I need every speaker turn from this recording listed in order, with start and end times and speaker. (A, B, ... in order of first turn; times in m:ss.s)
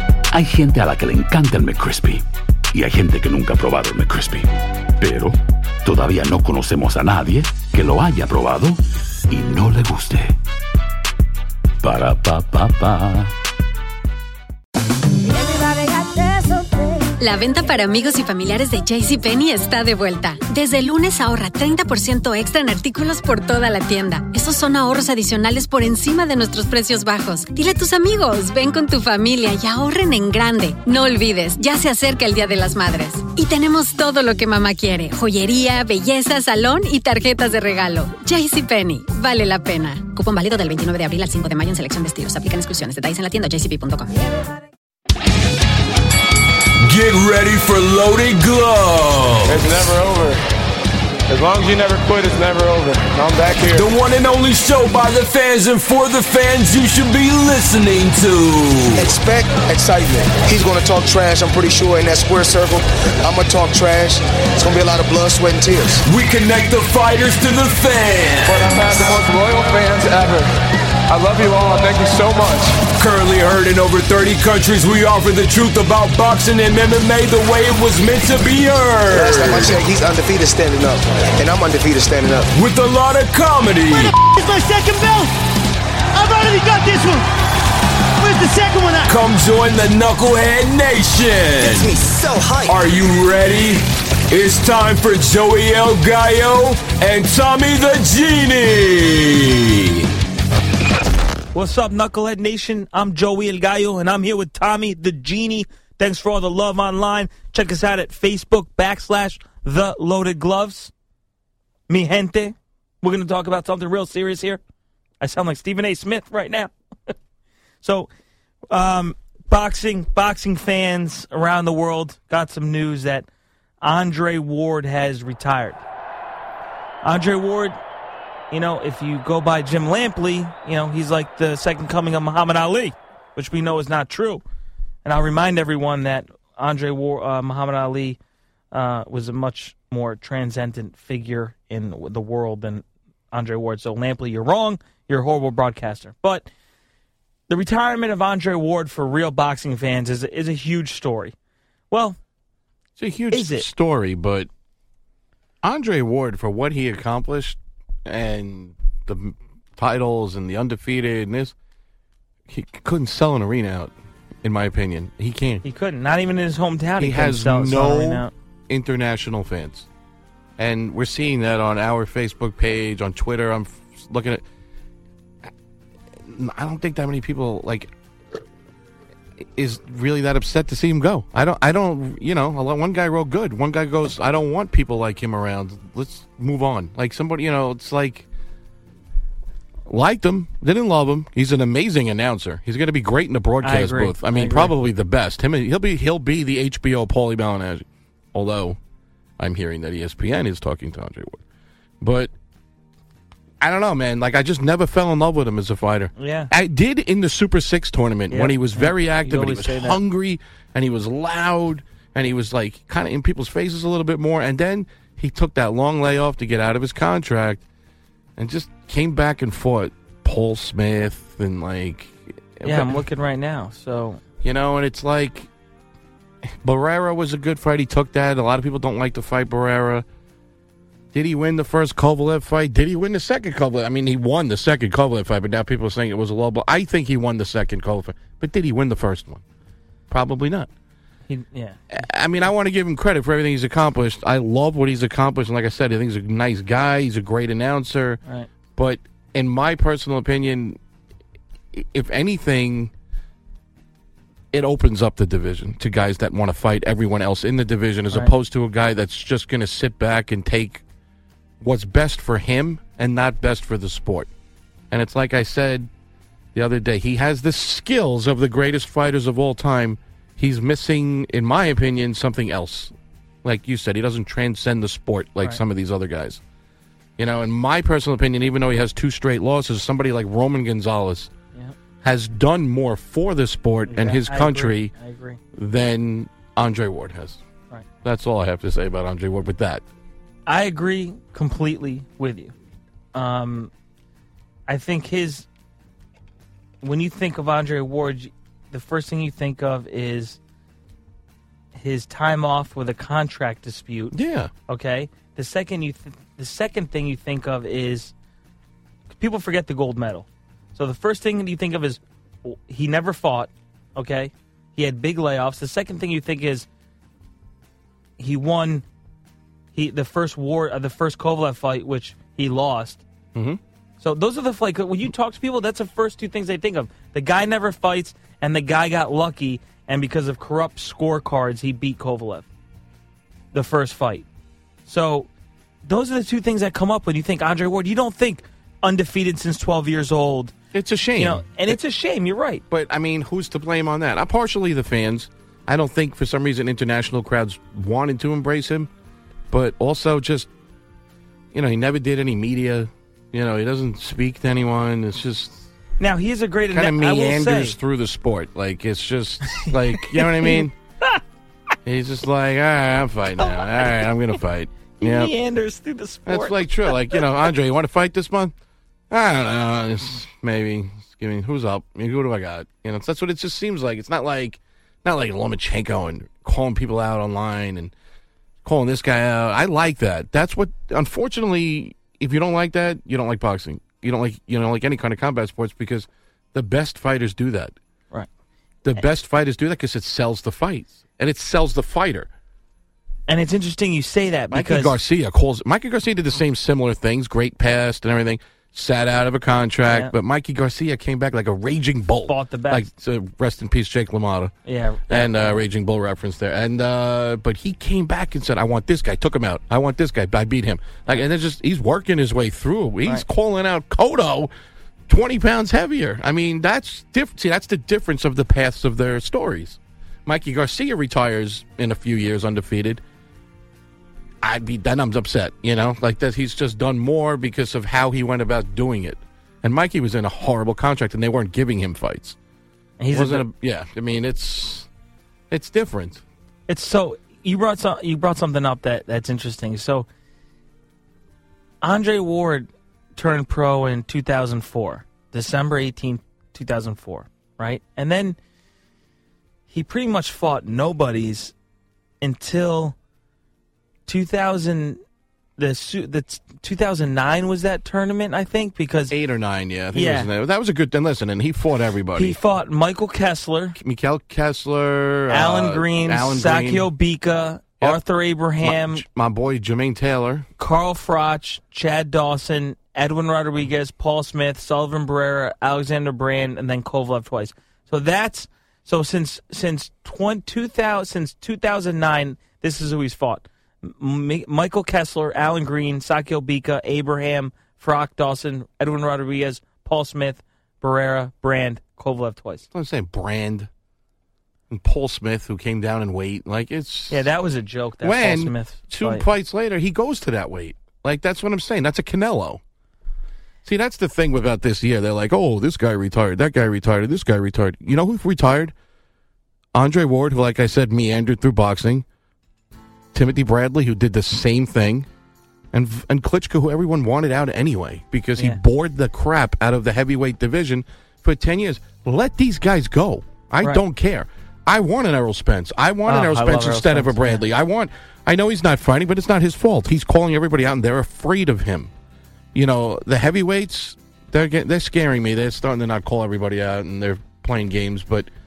0:00.3-0:10.3 A
0:11.8-0:13.3 A
0:15.7-0:16.0 B
0:17.2-0:44.1 C
0:46.8-0:49.6 D
0:49.5-0:50.4 E
0:51.3-0:53.9 E
0:53.7-0:59.1 D
0:59.0-1:06.0 F
1:06.0-1:08.8 D
1:08.4-1:10.5 E
1:11.1-1:12.8 E
1:13.0-1:19.8 D
1:19.1-1:22.5 F
1:22.5-1:24.2 D
1:24.0-1:25.3 B
1:26.1-1:27.2 B
1:28.2-1:29.1 B
1:29.0-1:31.9 D
1:31.6-1:32.8 F
1:32.6-1:40.0 D
1:41.5-1:50.9 G
1:51.9-1:54.6 G
1:55.2-1:56.7 G
1:57.8-1:58.1 G
1:58.7-2:03.2 G
2:03.8-2:05.8 G
2:07.0-2:07.8 G
2:08.5-2:14.4 G
2:15.0-2:18.2 G
2:18.7-2:26.5 G
2:27.5-2:31.3 G
2:31.9-2:32.2 G
2:33.0-2:34.5 H
2:33.3-2:33.6 G
2:35.6-2:41.5 H
2:42.5-2:43.9 H
2:44.4-2:45.6 H
2:45.6-2:48.3 G
2:47.0-2:49.9 H
2:50.6-2:54.4 H
2:56.2-2:57.9 H
2:59.4-3:08.3 H
3:09.9-3:18.8 H
3:13.6-3:14.7 G
3:19.4-3:21.4 H
3:22.0-3:22.3 H
3:23.6-3:37.6 H
3:26.2-3:26.5 G
3:28.3-3:30.0 G
3:38.4-3:43.0 H
3:42.6-3:44.2 G
3:44.4-3:45.5 H
3:46.4-3:50.0 H
3:51.1-3:59.4 H
4:00.1-4:00.7 H
4:01.3-4:02.0 G
4:01.9-4:08.2 H
4:08.8-4:10.8 H
4:11.7-4:12.9 H
4:14.5-4:20.8 H
4:21.6-4:24.3 H
4:24.9-4:25.9 H
4:26.5-4:36.4 H
4:37.2-4:41.3 H
4:42.0-4:44.9 H
4:43.9-4:45.4 G
4:45.5-4:47.4 H
4:48.0-4:49.8 H
4:50.4-4:52.5 G
4:53.1-4:53.7 G
4:54.7-4:55.4 G
4:56.8-5:00.4 G
5:01.7-5:08.1 G
5:04.1-5:04.5 H
5:09.1-5:16.7 G
5:18.2-5:18.8 G
5:19.7-5:23.0 G
5:23.3-5:23.6 H
5:24.0-5:32.4 G
5:33.5-5:34.2 G
5:34.8-5:35.3 G
5:35.8-5:40.5 G
5:40.7-5:41.8 H
5:41.2-5:42.6 G
5:42.7-5:48.9 H
5:49.5-5:50.5 H
5:51.5-5:55.7 H
5:56.0-5:57.8 G
5:56.7-6:00.7 H
5:59.6-6:01.2 G
6:01.8-6:05.3 H
6:03.4-6:04.1 G
6:05.0-6:07.3 G
6:06.2-6:08.5 H
6:09.1-6:17.9 H
6:18.6-6:27.7 H
6:28.8-6:32.3 H
6:33.3-6:34.9 G
6:34.5-6:44.5 H
6:39.8-6:40.1 G
6:42.3-6:42.9 G
6:44.6-6:45.6 G
6:45.1-6:54.5 H
6:55.1-7:03.0 H
7:04.4-7:12.4 H
7:13.0-7:13.4 G
7:13.1-7:14.9 H
7:15.5-7:16.2 H
7:16.7-7:20.1 G
7:21.8-7:28.4 G
7:29.7-7:31.5 G
7:32.2-7:33.0 G
7:34.1-7:35.0 G
7:35.6-7:39.2 G
7:39.1-7:42.4 H
7:39.9-7:40.3 G
7:42.2-7:43.8 G
7:43.8-7:46.9 H
7:45.3-7:49.0 G
7:48.6-7:50.5 H
7:50.6-8:12.6 G
8:12.7-8:13.7 H
8:14.7-8:17.3 H
8:17.1-8:19.2 G
8:18.0-8:22.6 H
8:23.6-8:28.7 H
8:29.7-8:32.0 H
8:33.1-8:35.1 H
8:35.7-8:51.9 H
8:46.0-8:47.4 G
8:52.5-8:58.3 H